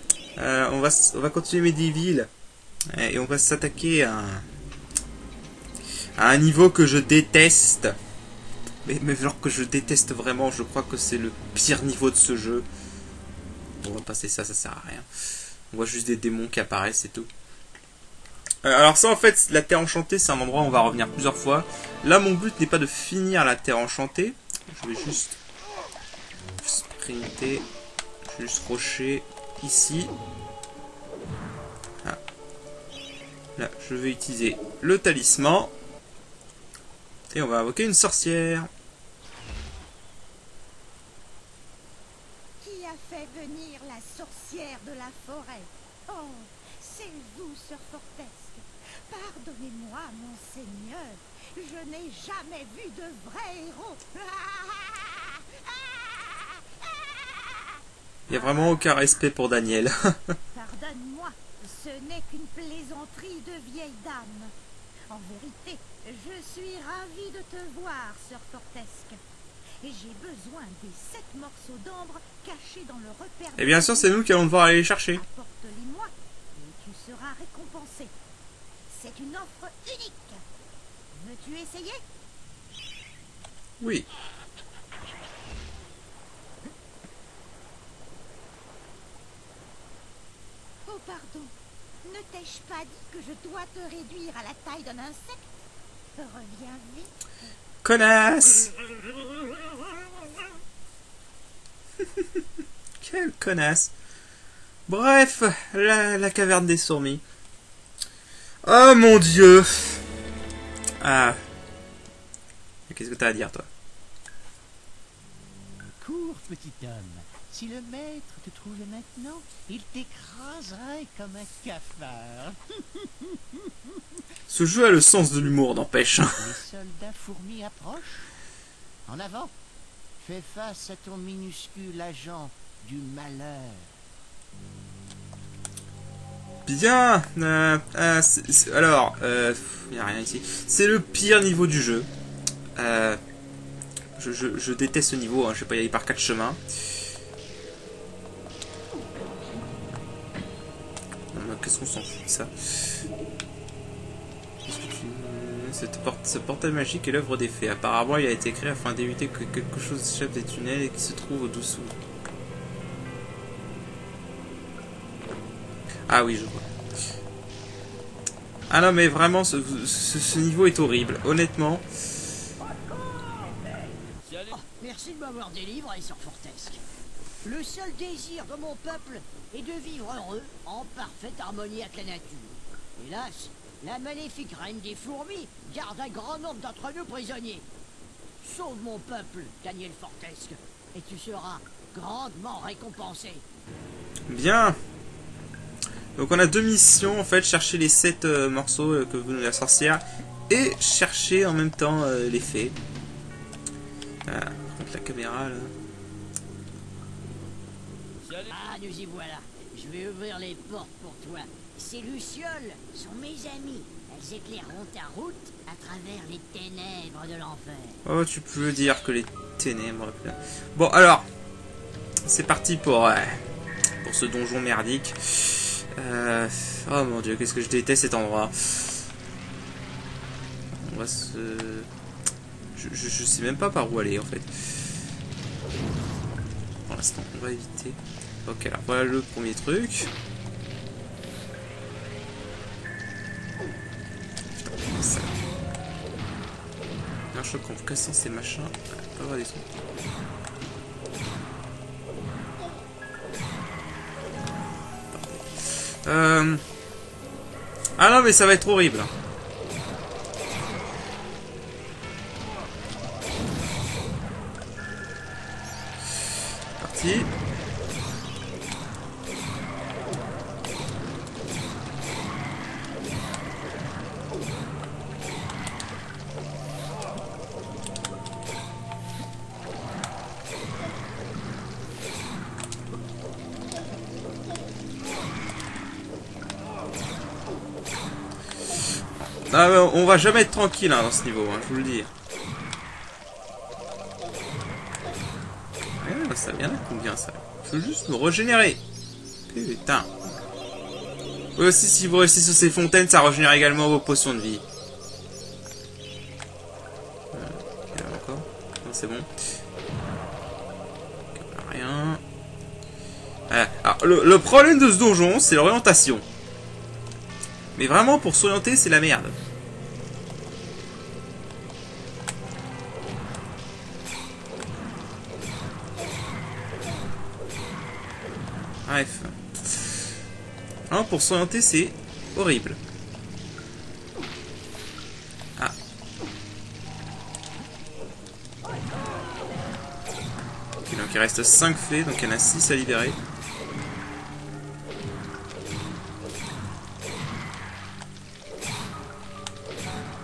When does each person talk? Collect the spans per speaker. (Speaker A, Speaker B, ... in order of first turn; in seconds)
Speaker A: 0.4-2.3, 2.9-4.5, 6.2-8.0, 8.8-12.7, 13.8-15.1, 15.7-17.3, 18.6-25.4, 26.6-27.7, 28.3-30.1, 33.6-35.7, 37.3-38.7, 58.3-60.4, 73.6-75.2, 83.8-84.1, 97.8-98.7, 103.0-103.9, 104.9-107.2, 108.6-110.0, 111.0-111.4, 112.9-113.7, 124.5-126.5, 136.7-142.1, 142.8-143.2, 144.2-146.6, 151.3-153.0, 154.7-161.9, 166.1-166.7, 168.7-171.8, 194.3-194.8, 196.2-202.8, 204.3-205.7, 218.1-221.3, 222.2-223.4, 224.0-229.1, 230.8-231.9, 232.8-235.0, 236.9-240.1, 244.8-245.3, 247.3-249.8, 255.1-256.6, 258.0-259.1, 266.8-267.3, 289.4-292.1, 296.0-298.8, 299.5-300.1, 301.6-304.6, 307.3-309.5, 311.4-312.2, 313.5-316.2, 317.8-319.4, 328.9-330.1, 330.9-332.8, 340.8-343.2
Speaker B: 42.6-57.7, 58.3-58.7, 60.5-64.5, 65.1-69.2, 69.8-74.5, 75.1-78.1, 78.9-80.4, 81.1-82.0, 90.9-91.5, 92.0-95.5, 96.2-97.5
Speaker C: 116.0-123.7, 126.4-128.3, 129.1-129.5, 130.2-133.9
Speaker D: 174.4-176.8, 177.4-187.7, 188.4-193.4, 208.3-218.0